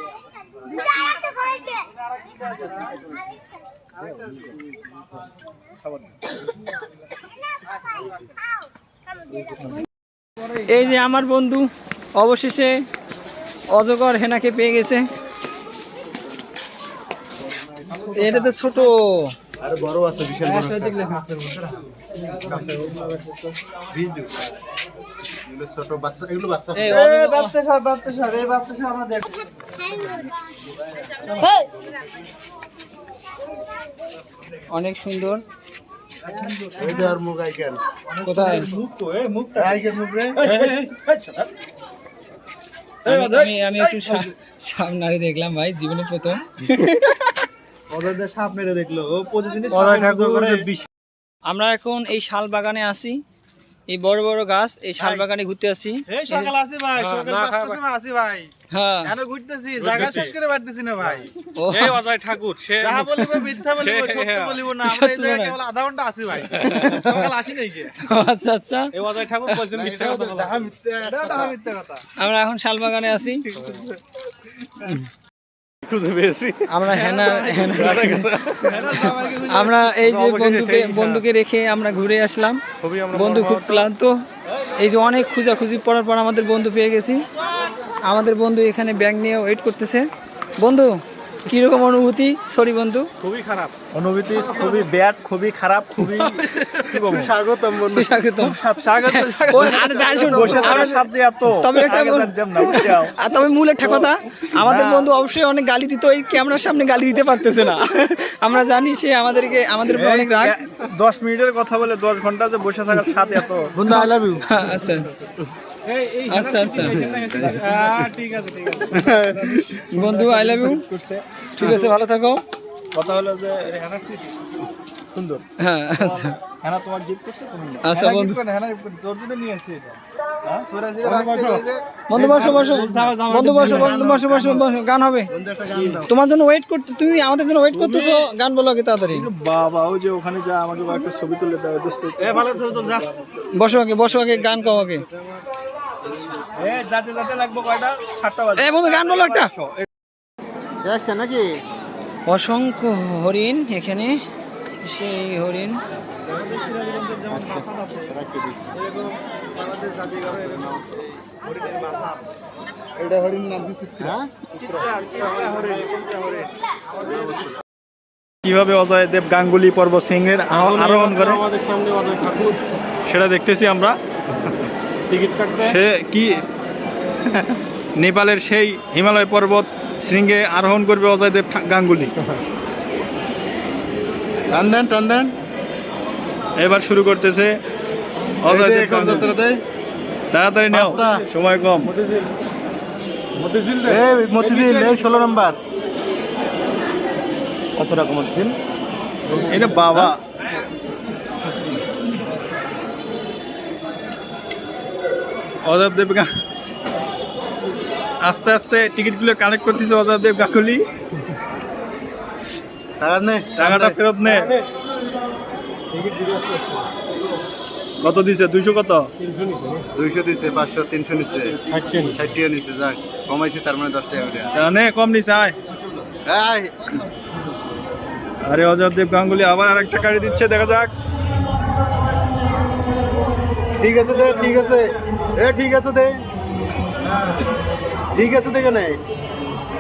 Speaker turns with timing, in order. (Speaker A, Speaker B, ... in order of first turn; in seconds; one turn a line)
Speaker A: 5.8-6.1
Speaker B: 10.6-12.8
Speaker B: 13.7-15.1
Speaker C: 17.9-18.6
Speaker B: 18.1-19.3
Speaker D: 19.6-21.0
Speaker C: 20.4-23.5
Speaker E: 22.4-23.1
Speaker D: 23.9-24.4
Speaker D: 25.4-27.0
Speaker B: 26.7-27.6
Speaker C: 26.9-29.4
Speaker C: 31.1-31.7
Speaker B: 34.7-35.4
Speaker C: 36.2-37.1
Speaker D: 36.8-37.8
Speaker C: 38.1-39.8
Speaker B: 38.2-38.8
Speaker D: 39.5-40.6
Speaker C: 40.4-41.5
Speaker E: 40.5-40.7
Speaker C: 43.1-44.3
Speaker B: 43.1-47.0
Speaker C: 47.9-50.8
Speaker E: 49.7-50.7
Speaker B: 51.5-53.2
Speaker B: 53.9-56.4
Speaker C: 56.1-58.5
Speaker E: 57.0-57.8
Speaker B: 58.7-59.1
Speaker C: 59.0-61.3
Speaker E: 59.8-60.4
Speaker B: 61.6-62.0
Speaker E: 61.7-64.7
Speaker C: 62.8-68.0
Speaker B: 64.8-65.5
Speaker E: 66.6-67.3
Speaker B: 66.7-67.0
Speaker B: 68.0-68.9
Speaker E: 68.9-70.6
Speaker D: 69.7-71.6
Speaker C: 71.0-72.0
Speaker B: 72.2-73.5
Speaker E: 73.5-73.8
Speaker E: 75.8-77.1
Speaker B: 76.7-78.5
Speaker C: 76.9-79.9
Speaker E: 77.7-79.2
Speaker B: 79.5-82.6
Speaker E: 80.0-81.2
Speaker E: 82.8-83.9
Speaker B: 83.1-84.2
Speaker B: 84.8-87.3
Speaker B: 88.0-90.1
Speaker B: 90.6-93.1
Speaker E: 93.2-93.7
Speaker A: 93.9-97.3
Speaker D: 94.3-94.7
Speaker D: 96.6-98.4
Speaker B: 97.9-110.5
Speaker A: 98.5-103.1
Speaker C: 98.8-100.8
Speaker D: 100.2-100.8
Speaker A: 103.8-105.1
Speaker A: 109.9-113.8
Speaker D: 113.7-114.5
Speaker B: 114.4-115.1
Speaker E: 115.8-119.7
Speaker B: 116.3-117.0
Speaker D: 116.7-118.1
Speaker D: 118.9-119.8
Speaker B: 119.9-120.8
Speaker A: 119.9-121.9
Speaker B: 121.5-122.4
Speaker A: 122.9-123.7
Speaker E: 123.6-124.3
Speaker A: 125.1-125.4
Speaker B: 125.6-126.3
Speaker A: 126.6-127.9
Speaker B: 127.8-128.4
Speaker C: 127.9-130.0
Speaker C: 130.7-134.6
Speaker D: 131.0-134.6
Speaker B: 132.1-135.3
Speaker D: 135.3-136.1
Speaker B: 136.0-139.3
Speaker A: 137.7-138.3
Speaker A: 139.1-142.9
Speaker C: 142.2-143.2
Speaker B: 143.6-145.0
Speaker E: 144.0-145.4
Speaker A: 146.6-149.8
Speaker B: 148.6-149.5
Speaker D: 150.8-151.6
Speaker B: 152.3-154.2
Speaker B: 154.8-155.8
Speaker C: 156.3-158.1
Speaker D: 157.3-158.7
Speaker C: 158.7-160.8
Speaker D: 160.2-161.1
Speaker C: 161.4-162.3
Speaker D: 163.0-164.8
Speaker C: 164.5-166.5
Speaker D: 167.0-167.4
Speaker C: 167.0-167.3
Speaker A: 168.4-171.4
Speaker E: 170.5-172.7
Speaker A: 173.1-173.9
Speaker E: 175.1-175.8
Speaker A: 175.6-176.4
Speaker D: 177.3-177.6
Speaker A: 178.0-182.1
Speaker D: 184.5-185.3
Speaker A: 186.6-187.6
Speaker A: 188.4-189.3
Speaker D: 188.4-189.6
Speaker A: 190.3-191.9
Speaker D: 190.7-191.2
Speaker E: 191.8-192.3
Speaker E: 193.3-195.2
Speaker D: 193.8-195.6
Speaker D: 197.8-198.5
Speaker D: 199.3-200.1
Speaker A: 199.5-200.2
Speaker A: 205.6-206.3
Speaker A: 208.2-210.9
Speaker D: 213.0-214.0
Speaker A: 213.6-214.5
Speaker E: 214.2-214.6
Speaker E: 215.9-216.9
Speaker A: 218.0-219.1
Speaker E: 219.2-219.9
Speaker D: 219.9-224.6
Speaker E: 221.7-222.2
Speaker A: 224.5-225.6
Speaker D: 226.1-227.0
Speaker A: 228.4-230.9
Speaker D: 233.8-236.2
Speaker D: 238.1-239.0